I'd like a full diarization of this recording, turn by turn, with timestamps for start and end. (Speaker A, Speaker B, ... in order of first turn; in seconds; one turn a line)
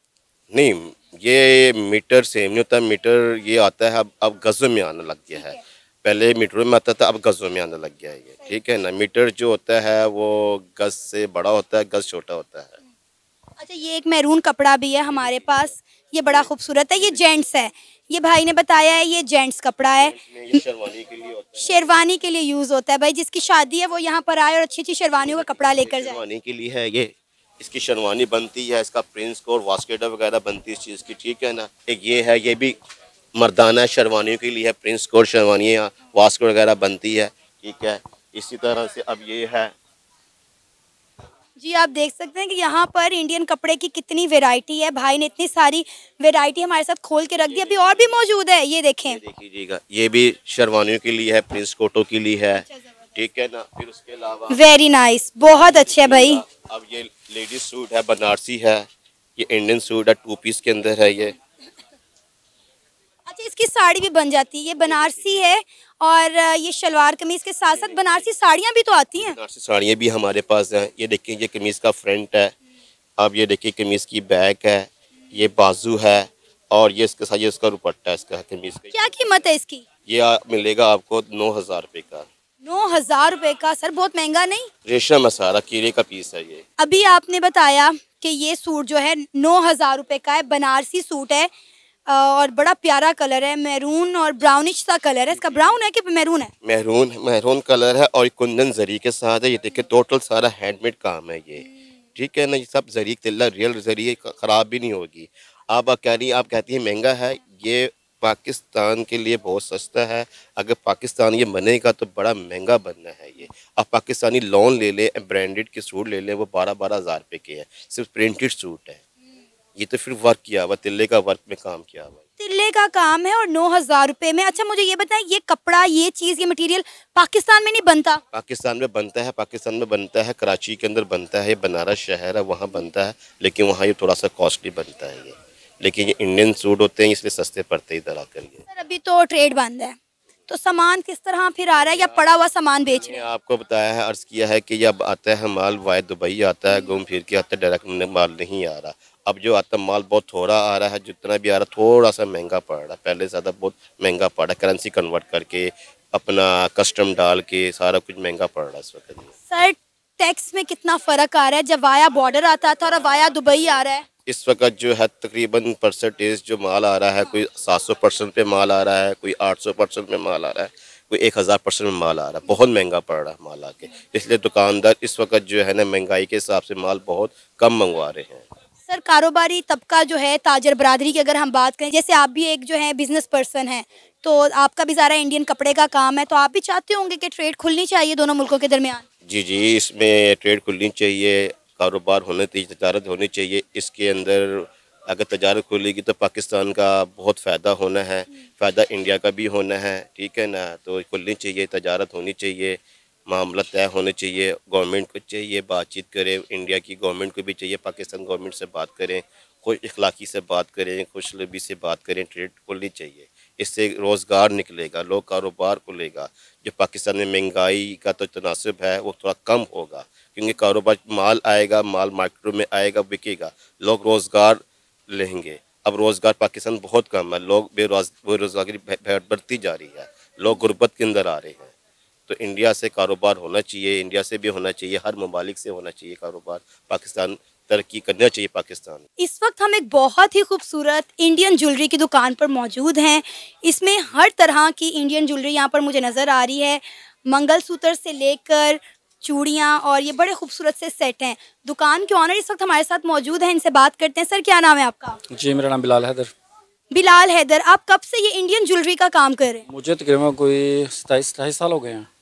Speaker A: 0.5-12.8
Speaker B: 13.6-20.6
Speaker A: 20.0-21.8
Speaker B: 21.6-26.2
Speaker A: 25.2-32.7
Speaker A: 33.3-39.7
Speaker B: 41.6-49.2
Speaker A: 47.5-48.1
Speaker A: 49.0-54.6
Speaker B: 54.5-56.4
Speaker A: 55.5-61.4
Speaker B: 63.3-69.4
Speaker A: 64.8-65.3
Speaker A: 67.7-68.0
Speaker A: 69.3-72.5
Speaker A: 73.2-79.0
Speaker B: 78.9-79.8
Speaker A: 80.0-82.3
Speaker B: 82.6-84.7
Speaker A: 84.8-86.6
Speaker B: 86.8-91.5
Speaker B: 92.1-96.5
Speaker A: 96.6-119.0
Speaker A: 119.7-122.2
Speaker B: 122.4-128.2
Speaker A: 128.3-138.6
Speaker B: 138.7-139.9
Speaker B: 140.5-143.2
Speaker A: 142.9-159.3
Speaker B: 159.5-164.1
Speaker A: 164.2-178.4
Speaker B: 178.9-189.0
Speaker A: 189.2-231.7
Speaker A: 232.3-239.0
Speaker B: 239.2-255.2
Speaker C: 255.3-256.3
Speaker B: 256.9-259.6
Speaker C: 259.7-262.1